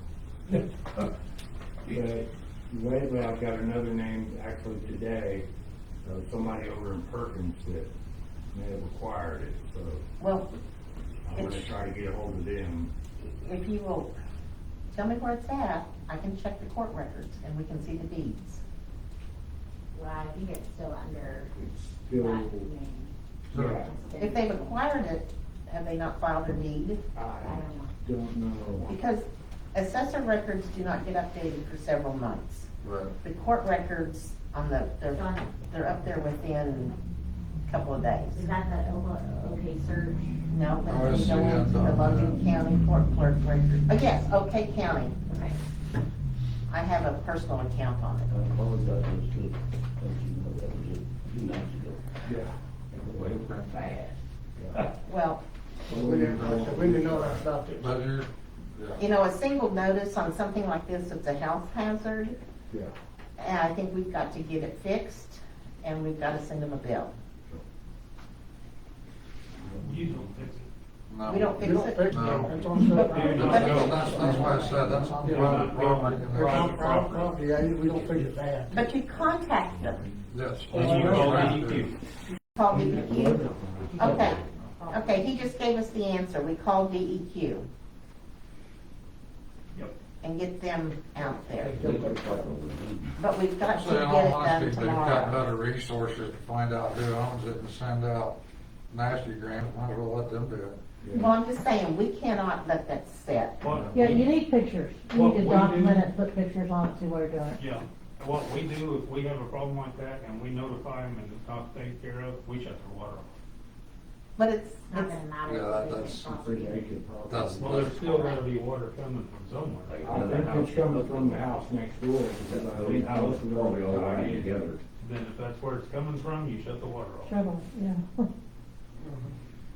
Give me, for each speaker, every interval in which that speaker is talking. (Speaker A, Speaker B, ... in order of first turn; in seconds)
Speaker A: 1.9-5.5, 6.0-7.9, 8.5-10.1, 11.3-12.9, 21.6-22.7, 23.5-23.9, 27.1-29.0, 52.2-52.5, 55.9-57.4, 101.0-101.3, 116.3-117.9, 120.0-124.7
Speaker B: 10.2-10.5, 11.3-11.7, 13.2-14.1, 14.9-18.6, 24.2-27.0, 28.9-32.7, 33.2-37.0, 37.7-38.5, 40.5-45.2, 46.7-48.3, 55.0-55.4, 59.0-62.4, 63.4-67.2, 71.3-74.7, 78.7-80.1, 82.5-83.5, 84.0-87.7, 90.2-91.9, 93.2-95.4, 101.1-103.6, 114.4-115.2
Speaker C: 19.9-23.1, 23.7-24.8, 27.4-27.9, 35.1-35.5, 38.3-40.3, 45.3-45.6, 83.9-85.6, 114.9-116.9
Speaker D: 23.5-23.9, 32.8-33.1, 40.9-42.4, 53.1-53.7, 56.1-59.0, 71.1-72.5, 73.3-77.3, 80.3-81.9, 93.7-100.8, 103.7-104.0, 115.5-116.5, 117.3-118.4
Speaker E: 48.3-52.0, 53.0-53.9, 54.6-54.9, 69.8-70.3, 74.8-75.1, 77.9-78.3, 79.2-80.2, 82.7-84.5, 91.7-93.2, 119.9-121.5, 122.4-124.8
Speaker F: 55.9-57.9, 71.6-78.8, 91.2-92.4, 129.0-129.3
Speaker G: 69.8-70.7, 72.9-74.0, 75.2-77.0, 80.7-82.0, 103.6-104.3, 105.1-106.1, 107.6-113.3, 117.6-120.1, 125.0-127.3
Speaker H: 103.9-107.6, 127.3-128.3